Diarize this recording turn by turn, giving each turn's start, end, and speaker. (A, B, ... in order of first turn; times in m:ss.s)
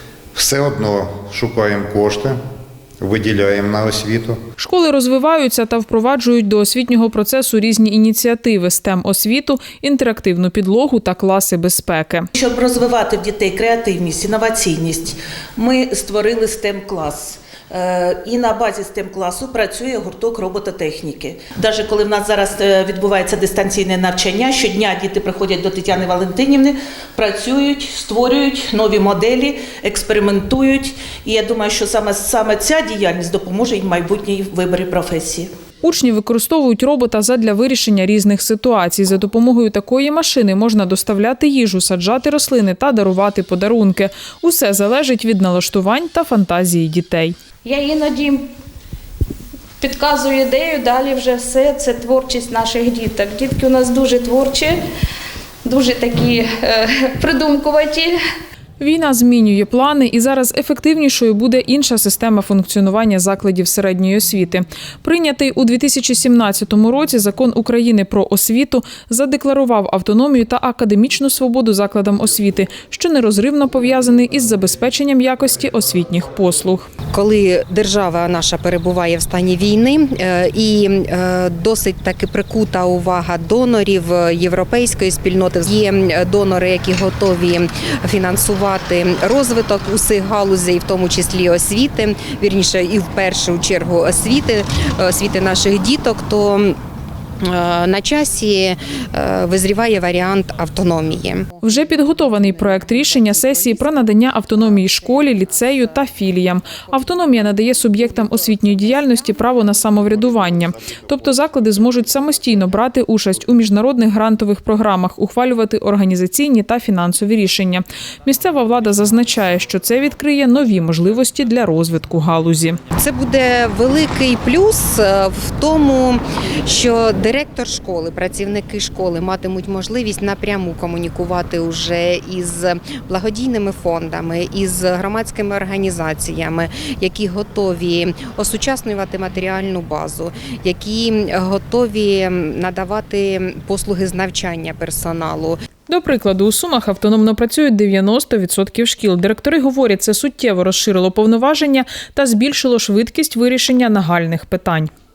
0:00.3-0:02.4 A
0:03.0-0:04.4 A
0:04.6-0:12.3 B
0:12.3-0:35.5 C
0:35.8-0:47.4 B
0:47.6-0:48.5 D
0:49.8-0:54.8 D
0:55.6-0:58.2 D
0:58.8-1:16.9 B
1:17.1-1:36.8 E
1:37.4-1:41.5 E
1:41.6-2:02.8 B
2:03.0-2:25.6 E
2:25.9-2:34.9 B